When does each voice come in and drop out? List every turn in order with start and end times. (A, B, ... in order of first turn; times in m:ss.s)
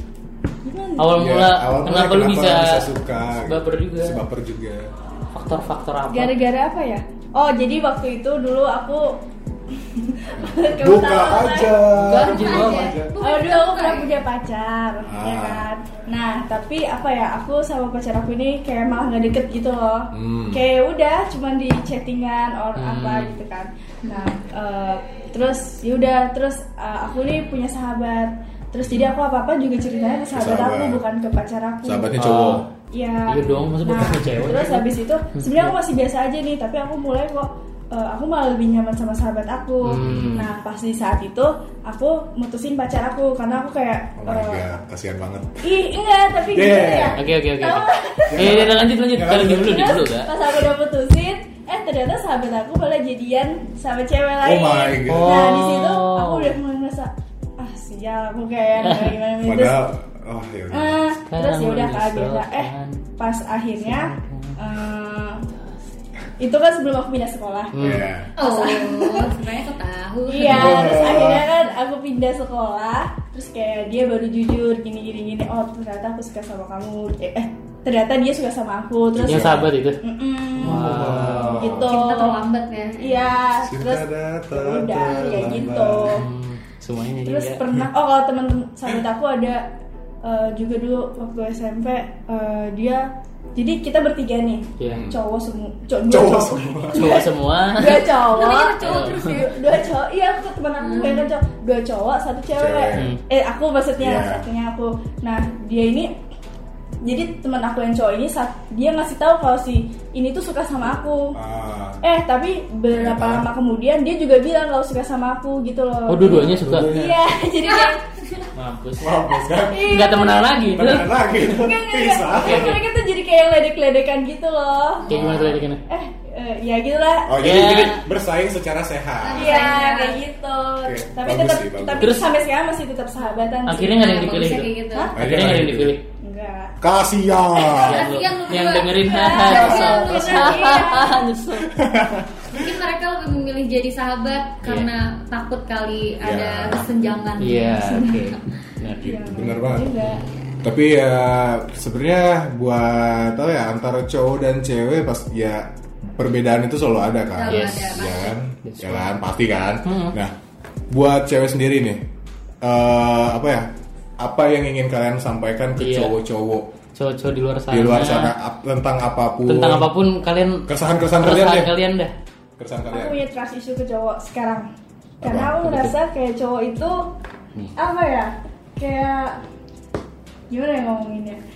0:00.6-0:01.1 A
0:01.0-0:02.8 B
0:01.1-0:04.9 C
0:03.4-0:04.2 B
0:05.3-0:06.3 B
0:06.1-0:09.1 A
0:09.7-0:11.8 A
0:10.4-0:13.1 C
0:11.9-0:13.0 B
0:12.2-0:14.2 D
0:13.2-0:32.2 A
0:15.1-0:15.6 C
0:20.1-0:20.6 C
0:22.8-0:23.3 B
0:24.0-0:24.3 D
0:30.3-0:31.0 C
0:31.8-0:32.7 C
0:32.2-0:32.6 B
0:32.9-0:44.6 A
0:33.3-0:35.7 B
0:39.8-0:40.5 B
0:40.0-0:40.3 C
0:44.2-0:45.6 C
0:45.6-0:48.7 A
0:46.5-0:47.2 C
0:47.2-0:50.3 B
0:48.3-0:50.0 C
0:49.5-0:59.8 A
0:54.4-0:55.6 C
0:55.1-0:56.6 B
0:58.8-0:59.1 B
0:59.4-1:01.0 C
1:00.7-1:05.4 A
1:01.3-1:03.0 B
1:03.8-1:04.6 B
1:05.5-1:05.8 B
1:06.4-1:07.8 A
1:07.7-1:08.1 B
1:07.8-1:08.3 C
1:08.4-1:09.4 A
1:08.4-1:10.7 D
1:10.3-1:22.4 A
1:10.4-1:11.5 C
1:19.1-1:19.7 C
1:19.2-1:20.0 B
1:20.6-1:21.8 B
1:20.6-1:22.0 C
1:21.8-1:23.3 D
1:23.0-1:26.2 A
1:23.6-1:26.2 C
1:26.1-1:27.6 B
1:27.2-1:29.7 A
1:30.2-1:46.1 A
1:34.8-1:35.0 B
1:34.9-1:35.2 C
1:36.0-1:37.3 C
1:36.9-1:38.2 B
1:38.2-1:39.5 D
1:38.8-1:39.4 B
1:40.8-1:41.3 D
1:42.5-1:43.1 C
1:44.0-1:44.4 C
1:47.0-1:51.4 A
1:51.3-1:52.0 C
1:52.0-1:58.0 A
1:52.9-1:53.5 C
1:56.1-1:56.9 B
1:56.2-1:57.2 C
1:57.6-1:58.5 D
1:58.5-1:59.2 B
1:59.0-2:00.1 C
1:59.7-2:00.4 A
1:59.8-2:01.4 B
2:00.7-2:02.8 C
2:01.5-2:05.1 A
2:02.4-2:02.8 B
2:05.1-2:05.8 B
2:05.1-2:05.6 C
2:05.9-2:07.3 A
2:07.2-2:09.7 C
2:07.4-2:08.0 B
2:09.2-2:10.2 D
2:09.3-2:14.3 A
2:10.8-2:12.2 C
2:12.0-2:12.3 B
2:13.6-2:16.0 B
2:13.9-2:15.1 D
2:15.2-2:15.9 C
2:16.2-2:16.8 A
2:16.8-2:18.1 C
2:17.6-2:21.2 D
2:17.7-2:21.7 B
2:19.0-2:21.2 A
2:21.6-2:22.8 C
2:22.5-2:28.3 D
2:24.6-2:24.9 B
2:26.2-2:26.8 C
2:27.4-2:29.0 B
2:27.9-2:28.2 A
2:29.0-2:40.3 C
2:29.0-2:30.2 A
2:37.3-2:38.3 D
2:37.5-2:37.9 B
2:38.6-2:39.0 B
2:39.8-2:40.2 B
2:40.9-2:42.0 C
2:42.6-2:43.7 C
2:44.2-2:46.7 C
2:45.8-2:46.1 B
2:46.9-2:48.3 B
2:47.7-2:49.9 C
2:49.5-2:50.7 B
2:50.6-2:51.7 C
2:51.2-2:52.1 B
2:52.6-2:53.2 C
2:52.9-2:54.7 A
2:55.2-2:55.8 C
2:55.2-2:57.1 A
2:57.8-2:59.4 A
3:00.5-3:01.4 A